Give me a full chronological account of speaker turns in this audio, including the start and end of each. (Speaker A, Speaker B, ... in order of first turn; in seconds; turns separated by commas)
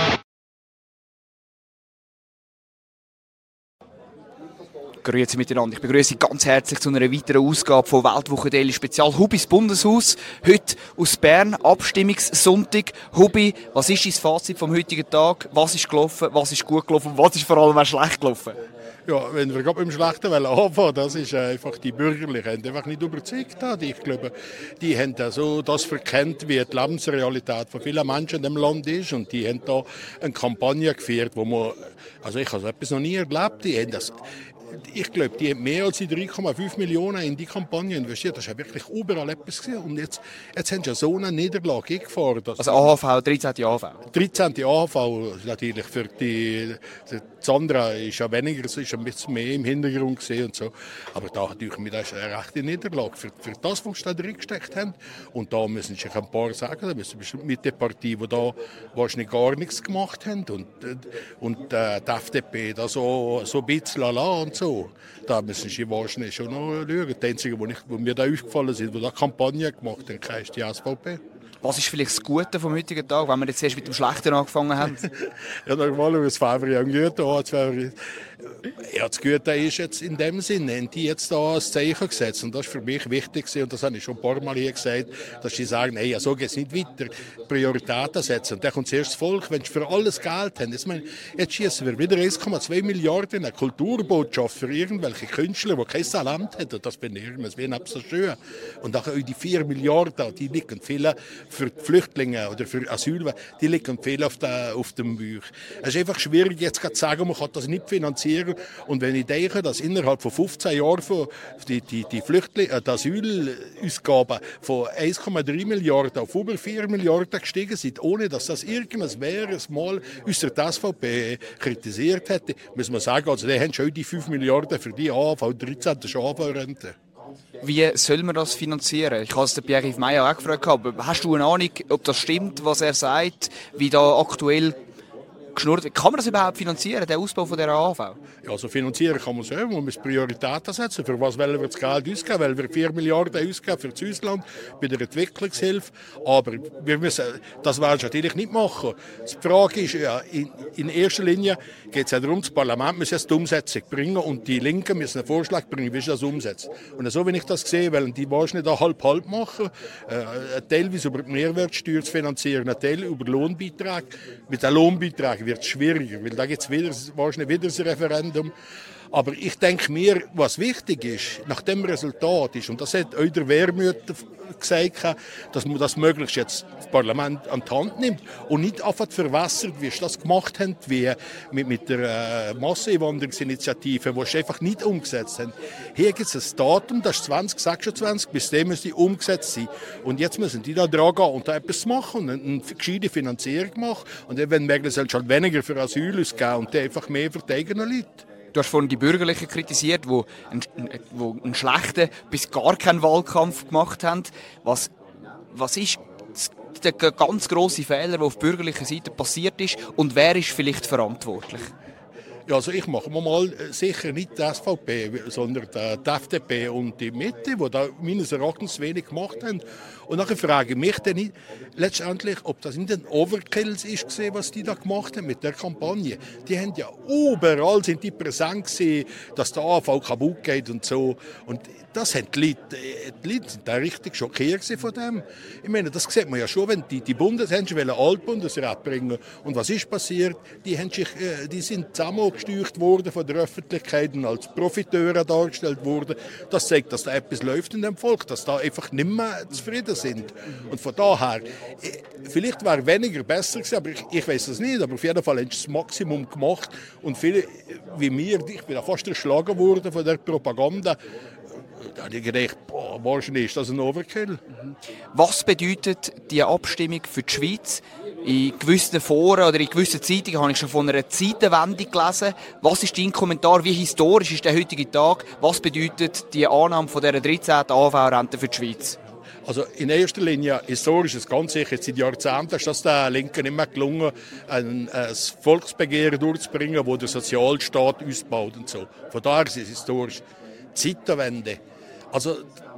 Speaker A: 5.0-18.6, Speaker B: 19.1-34.1, Speaker B: 34.8-42.9, Speaker A: 42.6-44.0, Speaker B: 44.1-71.2, Speaker A: 71.6-75.0, Speaker B: 75.7-78.0, Speaker B: 78.8-126.9, Speaker A: 127.6-134.8, Speaker A: 135.5-138.2, Speaker B: 138.4-168.5, Speaker B: 169.1-198.2, Speaker A: 198.5-204.9, Speaker A: 205.5-211.7, Speaker B: 212.5-261.0, Speaker B: 261.8-264.4, Speaker A: 264.6-279.0, Speaker B: 279.4-290.2, Speaker B: 290.7-291.6, Speaker B: 292.1-292.4